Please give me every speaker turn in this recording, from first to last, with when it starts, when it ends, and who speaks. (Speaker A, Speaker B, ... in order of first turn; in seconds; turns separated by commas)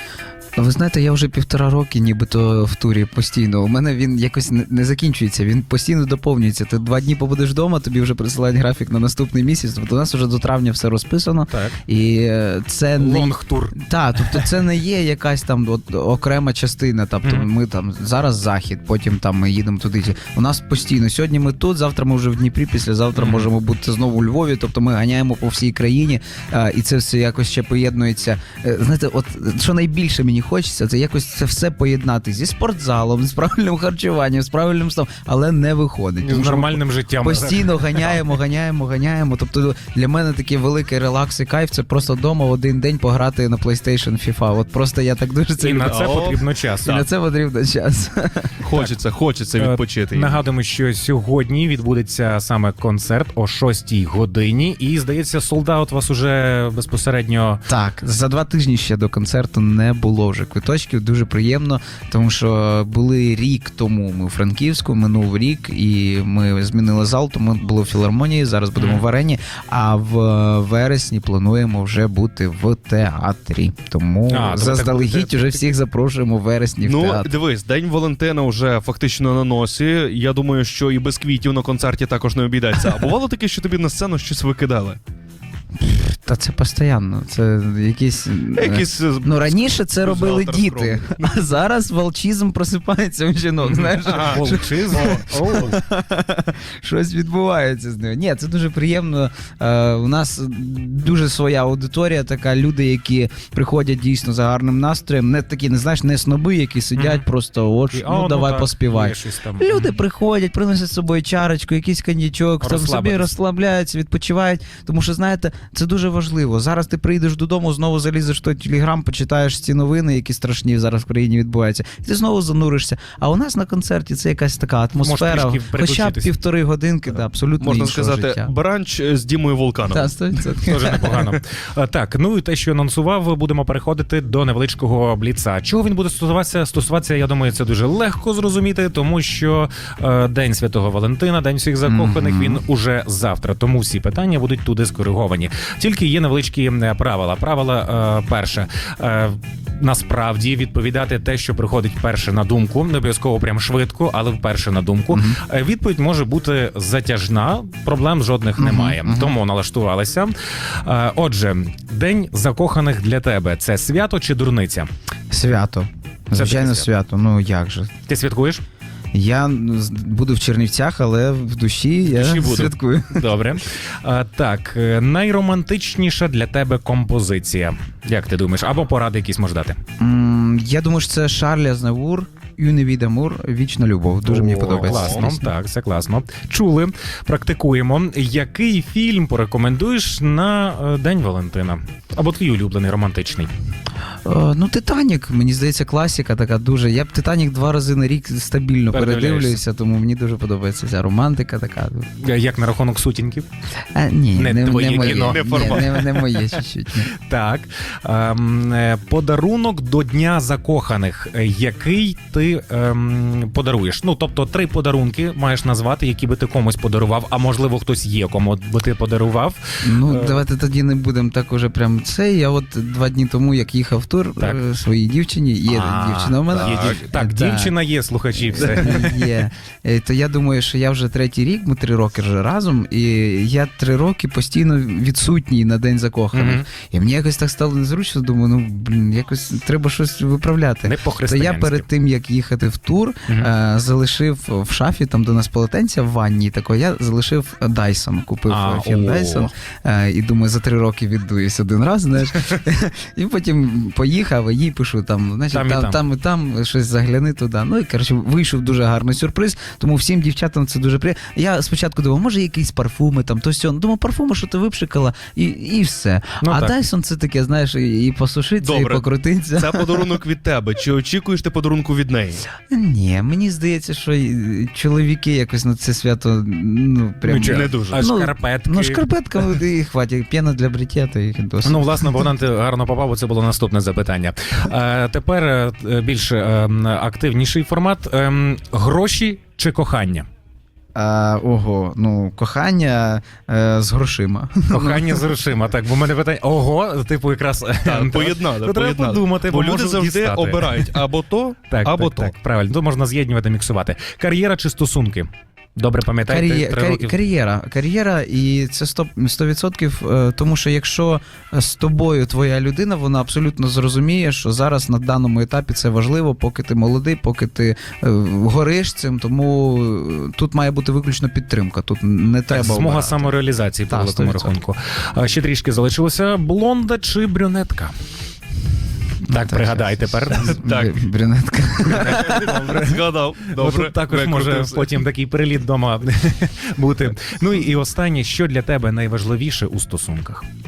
Speaker A: 0.6-46.3, Speaker B: 11.5-11.8, Speaker B: 13.0-14.4, Speaker B: 23.1-23.5, Speaker B: 36.2-38.2, Speaker B: 45.6-47.0, Speaker C: 45.8-47.0, Speaker A: 46.9-48.5, Speaker C: 48.6-50.4, Speaker B: 49.6-57.6, Speaker A: 57.7-77.3, Speaker B: 68.8-69.0, Speaker B: 74.3-75.6, Speaker C: 76.8-85.0, Speaker A: 85.8-128.5, Speaker C: 88.5-91.5, Speaker B: 93.7-95.8, Speaker C: 94.0-95.2, Speaker B: 107.0-107.2, Speaker B: 107.9-110.0, Speaker B: 112.6-113.3, Speaker B: 125.0-126.3, Speaker C: 127.6-130.2, Speaker A: 129.9-131.2, Speaker B: 130.6-164.9, Speaker A: 141.8-142.6, Speaker A: 155.1-155.4, Speaker A: 158.6-159.4, Speaker A: 165.3-167.9, Speaker B: 166.3-166.9, Speaker B: 168.1-168.6, Speaker A: 169.1-173.3, Speaker B: 172.1-179.8, Speaker A: 180.0-185.5, Speaker C: 184.3-185.3, Speaker B: 184.4-193.5, Speaker A: 194.2-202.1, Speaker B: 198.9-199.6, Speaker B: 202.2-203.5, Speaker A: 203.9-207.1, Speaker B: 204.3-205.9, Speaker C: 205.0-206.2, Speaker B: 207.1-220.4, Speaker A: 219.8-227.7, Speaker B: 225.7-229.3, Speaker C: 226.6-227.0, Speaker A: 228.5-270.2, Speaker C: 228.6-228.9, Speaker B: 236.3-236.7, Speaker B: 240.8-241.9, Speaker B: 248.5-249.5, Speaker B: 255.5-256.0, Speaker B: 266.4-266.8, Speaker C: 268.6-272.5, Speaker A: 272.7-282.2, Speaker B: 277.2-279.0, Speaker C: 277.4-278.0, Speaker B: 281.6-290.3, Speaker A: 290.9-295.3, Speaker B: 294.7-300.9, Speaker C: 297.9-302.3, Speaker B: 301.7-307.1, Speaker A: 306.3-323.3, Speaker B: 322.5-327.9, Speaker A: 323.9-324.6, Speaker B: 329.2-330.6, Speaker A: 329.3-332.5, Speaker C: 330.6-331.0, Speaker B: 331.9-340.4, Speaker C: 332.1-335.0